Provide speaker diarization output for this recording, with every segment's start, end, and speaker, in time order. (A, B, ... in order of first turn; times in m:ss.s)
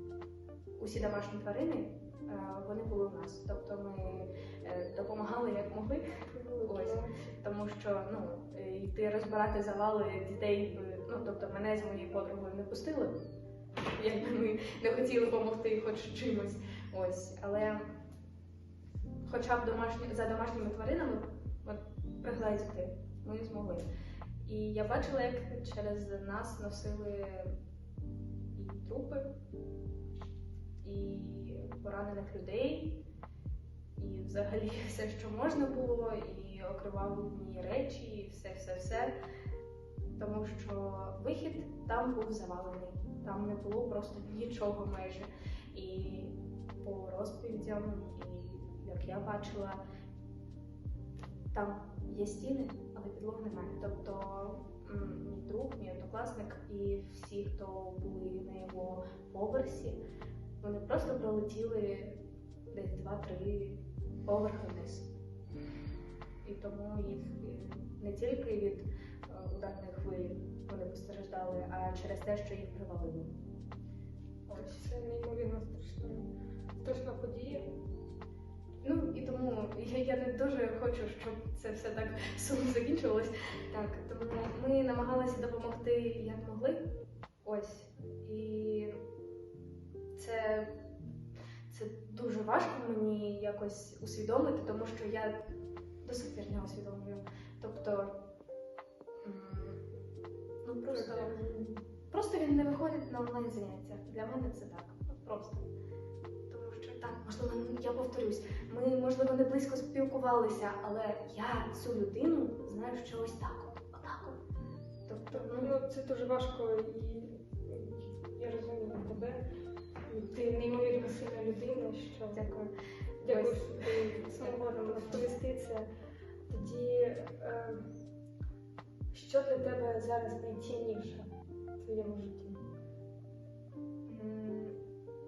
0:00.8-0:06.0 A
0:06.3-0:07.3 B
0:06.6-0:13.1 A
0:14.0-0:17.8 A
0:19.2-0:23.8 A
0:24.4-0:27.5 A
0:28.6-0:29.3 A
0:30.8-0:33.0 A
0:34.0-0:39.1 A
0:40.2-0:49.8 A
0:51.5-1:00.0 A
1:00.6-1:02.2 A
1:02.7-1:05.1 A
1:06.4-1:13.3 A
1:14.5-1:14.9 A
1:14.5-1:17.7 B
1:18.8-1:26.8 A
1:27.4-1:29.0 A
1:30.2-1:30.7 A
1:31.7-1:35.3 A
1:36.0-1:38.1 A
1:39.2-1:39.8 A
1:40.6-1:41.3 A
1:40.9-1:41.8 B
1:42.1-1:45.6 A
1:46.5-1:54.4 A
1:55.1-1:55.7 A
1:55.3-1:59.4 B
2:00.1-2:02.4 B
2:02.3-2:05.3 A
2:03.2-2:05.9 B
2:06.5-2:07.8 B
2:09.1-2:11.3 B
2:11.8-2:12.6 B
2:14.1-2:14.7 A